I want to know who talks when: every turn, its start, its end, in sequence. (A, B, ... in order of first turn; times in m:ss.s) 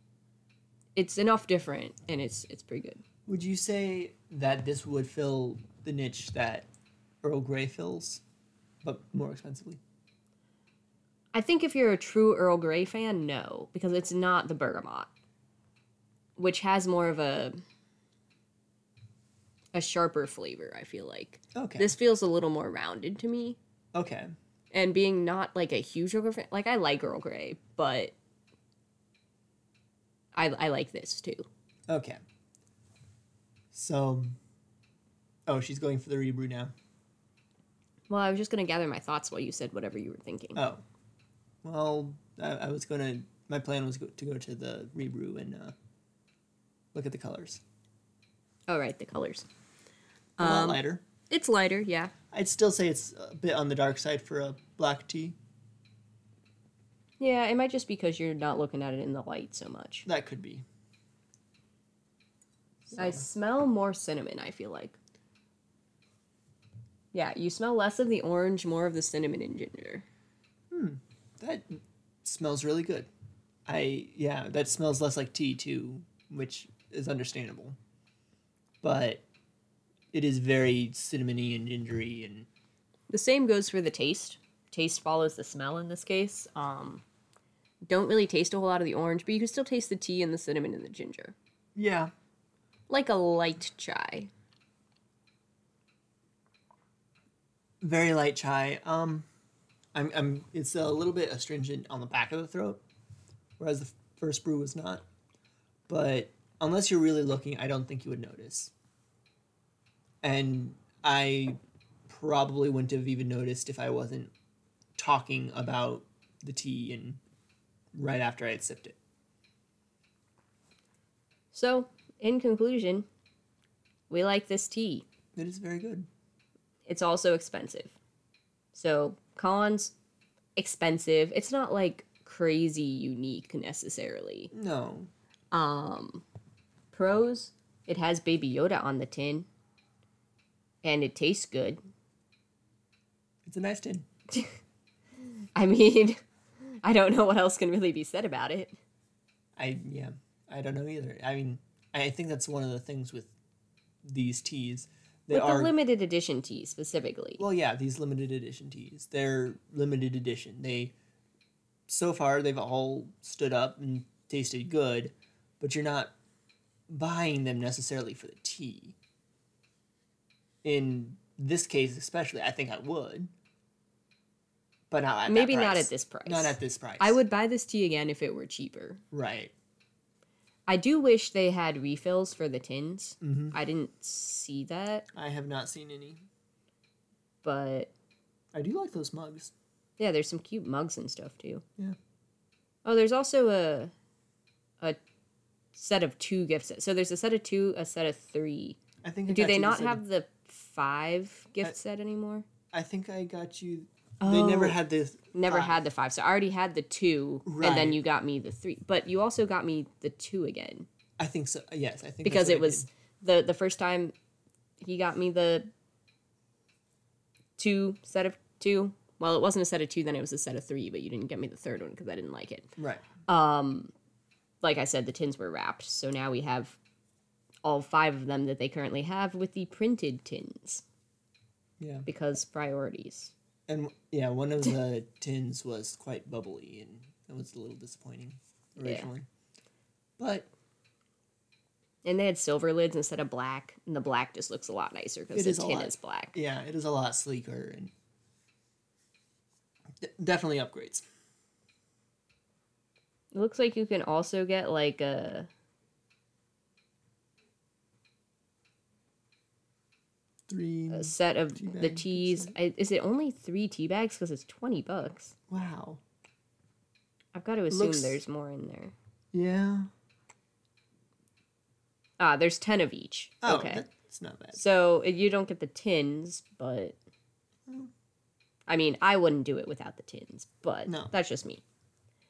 0:01.0-0:03.0 A
0:03.3-0:06.7 B
0:07.2-0:08.2 B
0:08.8-0:09.8 B
0:11.3-0:15.1 A
0:16.4-0:17.6 A
0:19.7-0:23.6 A
0:21.6-0:21.9 B
0:23.9-0:24.3 B
0:24.7-0:28.1 A
0:30.4-0:31.5 A
0:31.9-0:32.2 B
0:33.7-0:34.4 B
0:35.5-0:36.7 B
0:38.1-0:40.6 A
0:40.6-0:40.8 B
0:41.6-0:45.7 B
0:46.9-0:47.6 B
0:48.7-0:49.5 A
0:50.4-0:52.1 A
0:50.4-0:51.0 B
0:52.3-0:55.4 B
0:57.2-1:00.1 A
1:00.1-1:00.7 B
1:02.9-1:03.3 B
1:03.0-1:05.0 A
1:07.1-1:10.0 A
1:10.7-1:13.1 B
1:13.7-1:17.8 B
1:18.8-1:19.2 B
1:20.1-1:22.5 B
1:23.1-1:27.0 A
1:27.9-1:31.4 A
1:31.8-1:32.1 B
1:32.9-1:34.3 A
1:37.8-1:39.3 B
1:40.0-1:42.8 B
1:43.6-1:45.0 B
1:45.9-1:48.7 B
1:50.2-1:51.6 B
1:52.1-1:54.3 B
1:55.0-1:57.2 B
1:58.0-1:59.0 B
2:01.5-2:03.1 A
2:04.1-2:05.0 A
2:05.4-2:06.1 B
2:06.9-2:08.0 A
2:08.7-2:10.0 A
2:10.6-2:14.5 A
2:14.5-2:15.1 B
2:15.5-2:16.2 A
2:16.9-2:19.5 A
2:20.8-2:21.8 A
2:23.4-2:24.0 B
2:25.6-2:26.2 A
2:26.8-2:28.8 A
2:29.6-2:33.3 B
2:34.0-2:35.7 B
2:35.3-2:37.4 A
2:37.4-2:40.9 B
2:41.9-2:46.1 B
2:46.9-2:49.0 B
2:50.6-2:53.3 B
2:54.9-2:57.2 B
2:55.3-2:59.0 A
2:59.1-2:59.5 B
3:00.7-3:05.1 A
3:03.2-3:03.6 B
3:05.1-3:06.2 B
3:07.4-3:07.9 A
3:08.5-3:09.5 B
3:10.0-3:11.6 A
3:12.8-3:13.9 A
3:15.7-3:22.4 A
3:19.0-3:20.0 B
3:22.7-3:25.8 B
3:24.2-3:24.8 A
3:25.3-3:30.9 A
3:27.5-3:28.0 B
3:31.2-3:32.9 B
3:32.2-3:34.1 A
3:34.8-3:35.7 A
3:37.6-3:42.7 A
3:42.8-3:43.1 B
3:43.3-3:43.9 A
3:44.6-3:46.8 A
3:47.6-3:50.8 A
3:51.8-3:52.1 B
3:52.1-3:53.3 A
3:53.7-3:59.3 B
3:58.8-3:59.1 A
4:00.2-4:00.5 B
4:02.0-4:06.4 A
4:05.3-4:07.9 B
4:10.0-4:11.0 B
4:13.3-4:15.5 A
4:20.5-4:22.5 B
4:20.9-4:25.4 A
4:25.5-4:26.0 B
4:27.4-4:28.9 A
4:27.7-4:28.2 B
4:29.3-4:29.9 B
4:32.2-4:33.9 A
4:33.4-4:34.6 B
4:34.5-4:37.0 A
4:38.7-4:41.6 A
4:40.9-4:41.2 B